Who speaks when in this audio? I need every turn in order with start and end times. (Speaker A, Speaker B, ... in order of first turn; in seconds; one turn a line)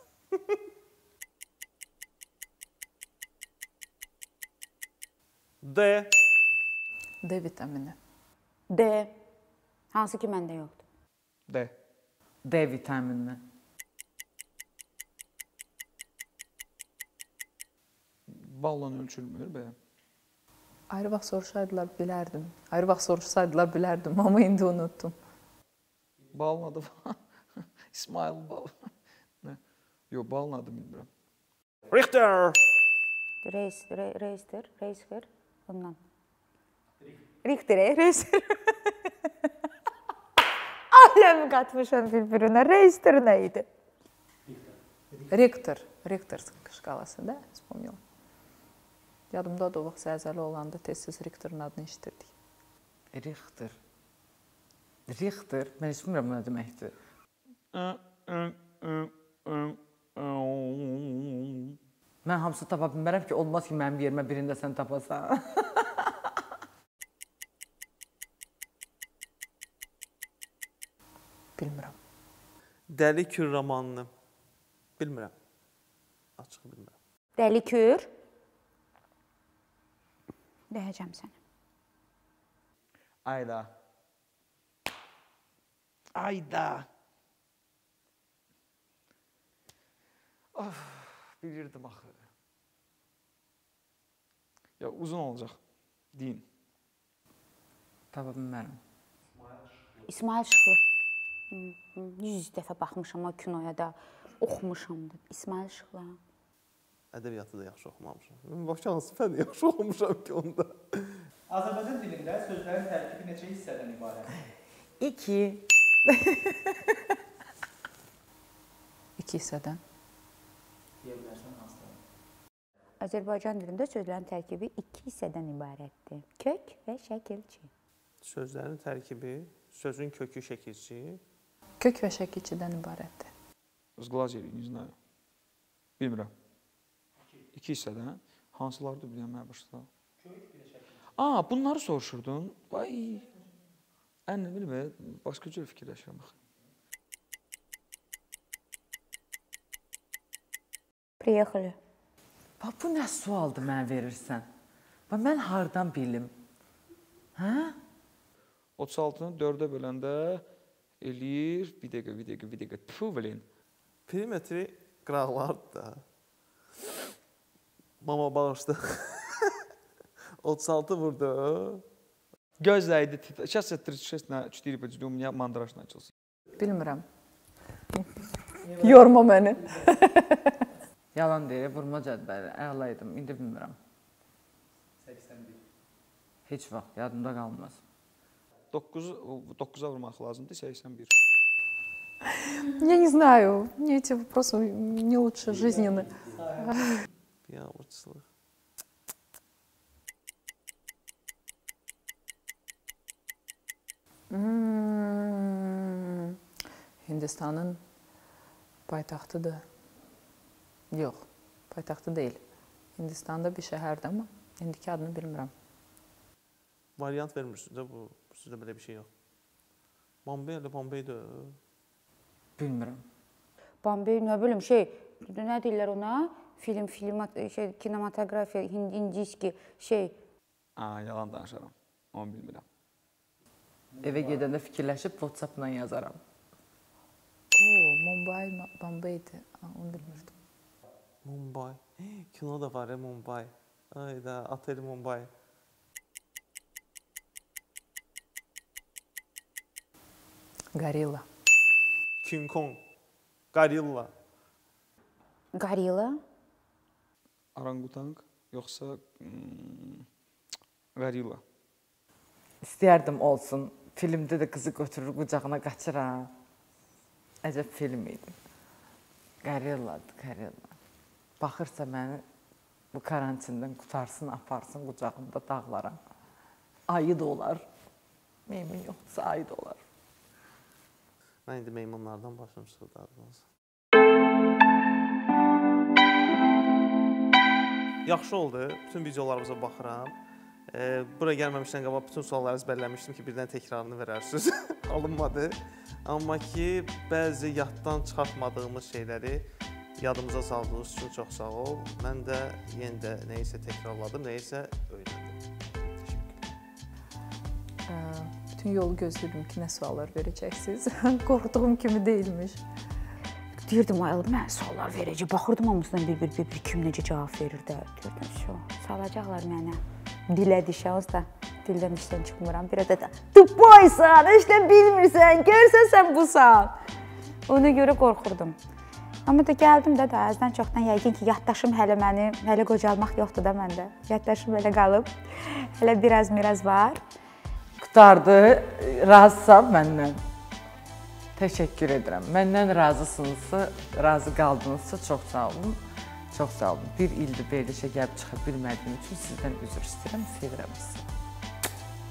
Speaker A: 0.3-0.6
Speaker A: 5.6-6.1
Speaker B: 7.2-8.0
Speaker C: 8.7-9.1
Speaker C: 9.9-10.8
Speaker D: 11.5-11.7
Speaker E: 12.4-13.4
Speaker D: 18.3-19.8
Speaker B: 20.9-25.1
Speaker D: 26.3-28.9
Speaker D: 30.1-31.1
Speaker C: 33.4-36.0
Speaker C: 37.4-39.1
Speaker C: 40.9-43.6
Speaker F: 44.5-45.3
Speaker B: 45.3-48.0
Speaker B: 49.3-52.3
Speaker E: 53.1-53.8
Speaker E: 55.1-56.9
Speaker D: 57.7-61.8
Speaker E: 62.2-66.1
Speaker B: 71.6-72.0
Speaker A: 72.9-74.1
Speaker A: 75.0-75.3
Speaker A: 76.4-76.9
Speaker C: 77.4-78.1
Speaker C: 80.7-81.3
Speaker D: 83.2-83.7
Speaker D: 86.1-86.9
Speaker D: 90.5-92.2
Speaker D: 94.8-95.6
Speaker D: 96.1-96.4
Speaker E: 98.1-98.8
Speaker C: 100.1-100.8
Speaker C: 101.5-106.2
Speaker A: 107.1-111.2
Speaker F: 111.5-114.3
Speaker E: 115.0-116.8
Speaker B: 119.2-119.8
Speaker F: 121.0-122.0
Speaker C: 123.0-127.7
Speaker A: 128.2-131.2
Speaker B: 131.8-133.3
Speaker D: 134.0-134.9
Speaker D: 136.0-136.3
Speaker D: 137.5-139.9
Speaker F: 140.2-141.0
Speaker D: 141.1-143.3
Speaker D: 144.3-146.3
Speaker C: 151.2-151.8
Speaker E: 152.6-154.5
Speaker E: 155.1-156.3
Speaker E: 157.3-157.8
Speaker D: 158.8-160.4
Speaker D: 161.0-163.4
Speaker A: 164.1-166.0
Speaker A: 168.0-169.6
Speaker A: 170.4-171.8
Speaker D: 172.6-176.1
Speaker B: 176.6-177.0
Speaker F: 178.6-179.9
Speaker B: 178.8-180.7
Speaker E: 181.1-183.8
Speaker F: 185.0-185.6
Speaker E: 186.5-187.8
Speaker D: 188.7-191.2
Speaker B: 192.6-197.0
Speaker F: 195.4-196.8
Speaker A: 197.4-198.2
Speaker B: 204.3-206.4
Speaker B: 207.0-207.8
Speaker B: 208.9-209.7
Speaker B: 210.9-212.4
Speaker B: 212.9-215.5
Speaker A: 217.0-219.1
Speaker A: 220.2-221.6
Speaker E: 222.6-223.0
Speaker C: 223.8-230.2
Speaker D: 230.8-232.6
Speaker F: 233.9-234.4
Speaker E: 234.0-236.2
Speaker B: 237.5-240.4
Speaker A: 241.2-245.3
Speaker B: 250.7-251.2
Speaker A: 252.2-252.8
Speaker A: 253.5-254.1
Speaker C: 255.5-256.2
Speaker D: 257.5-260.1
Speaker D: 260.9-261.4
Speaker E: 262.6-266.3
Speaker E: 267.4-268.3
Speaker E: 269.4-270.7
Speaker E: 271.4-272.2
Speaker E: 272.9-276.0
Speaker E: 276.9-277.6
Speaker E: 278.5-279.8
Speaker A: 281.5-283.4
Speaker A: 288.0-290.1
Speaker A: 290.7-306.6
Speaker B: 307.9-312.6
Speaker C: 313.6-326.8
Speaker C: 327.5-328.6
Speaker C: 329.2-337.0
Speaker E: 337.8-340.2
Speaker E: 341.4-345.8
Speaker E: 346.3-351.1